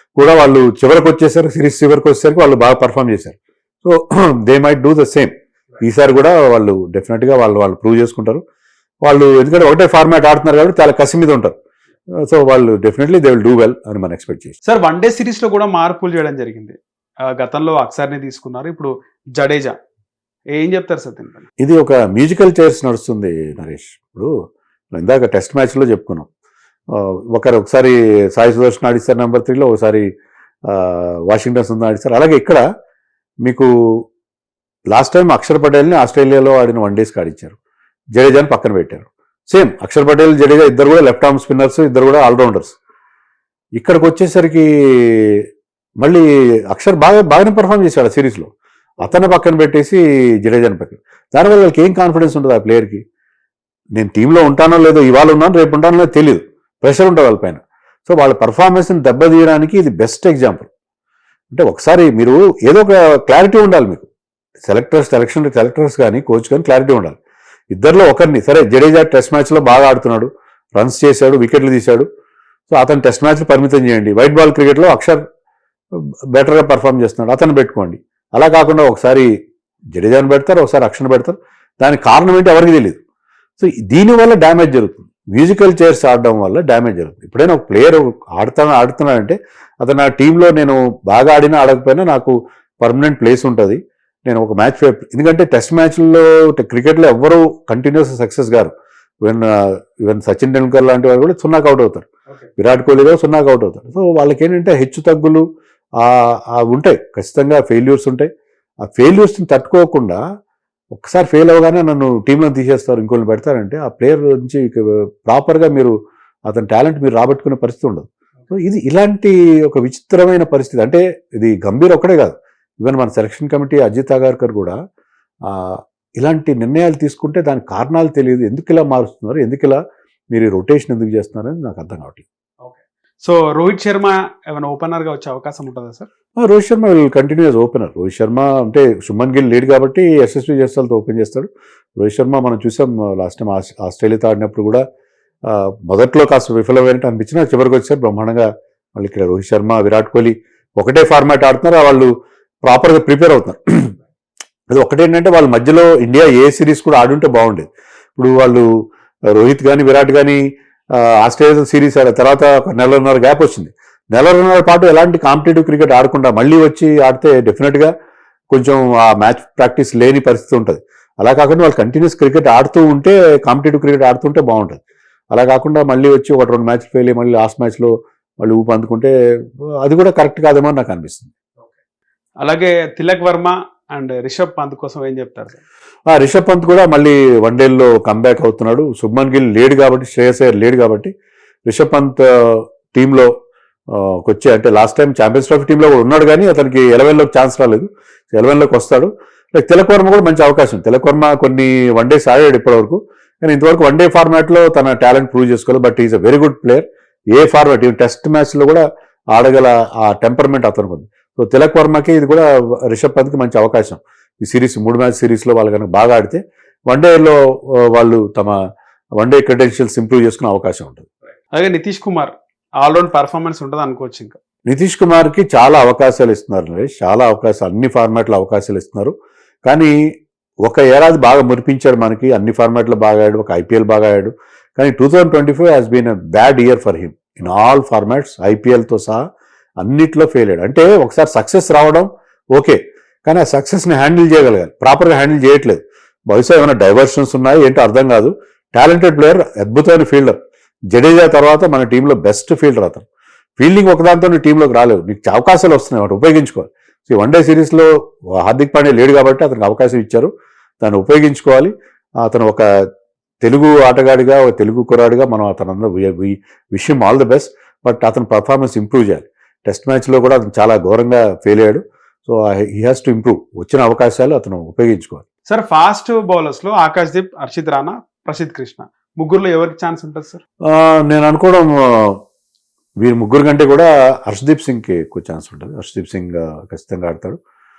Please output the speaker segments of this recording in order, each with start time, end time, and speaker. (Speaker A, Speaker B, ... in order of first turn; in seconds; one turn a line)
Speaker A: 0.2-8.4
Speaker A: 9.0-11.6
Speaker A: 12.2-14.6
Speaker B: 14.7-19.8
Speaker B: 20.5-21.5
Speaker A: 21.6-24.3
Speaker A: 24.9-26.3
Speaker A: 26.9-30.1
Speaker A: 30.7-32.6
Speaker A: 33.4-34.0
Speaker A: 34.9-37.6
Speaker A: 38.1-42.8
Speaker A: 43.8-45.4
Speaker A: 46.0-53.0
Speaker A: 54.0-60.7
Speaker A: 61.5-64.1
Speaker A: 64.7-67.2
Speaker A: 67.7-72.1
Speaker A: 72.7-75.2
Speaker A: 75.9-79.3
Speaker A: 79.9-83.0
Speaker A: 83.6-98.7
Speaker A: 99.2-105.5
Speaker A: 106.0-108.3
Speaker A: 108.8-110.2
Speaker A: 110.9-115.9
Speaker A: 116.5-124.8
Speaker A: 125.5-129.8
Speaker A: 130.3-132.2
Speaker B: 132.6-136.1
Speaker A: 136.4-144.8
Speaker A: 145.5-152.1
Speaker A: 152.6-153.9
Speaker A: 154.7-158.7
Speaker A: 159.3-160.4
Speaker A: 160.9-167.9
Speaker A: 168.5-174.8
Speaker A: 175.3-179.1
Speaker A: 179.8-181.3
Speaker B: 182.4-185.6
Speaker A: 186.1-191.1
Speaker A: 191.7-193.3
Speaker A: 193.9-218.6
Speaker A: 219.2-221.1
Speaker B: 221.5-224.4
Speaker A: 224.7-229.1
Speaker A: 229.7-230.0
Speaker A: 230.6-239.2
Speaker A: 239.8-250.4
Speaker A: 250.9-253.1
Speaker A: 253.6-262.7
Speaker A: 263.4-275.2
Speaker B: 275.5-280.4
Speaker A: 280.7-282.2
Speaker A: 283.0-287.4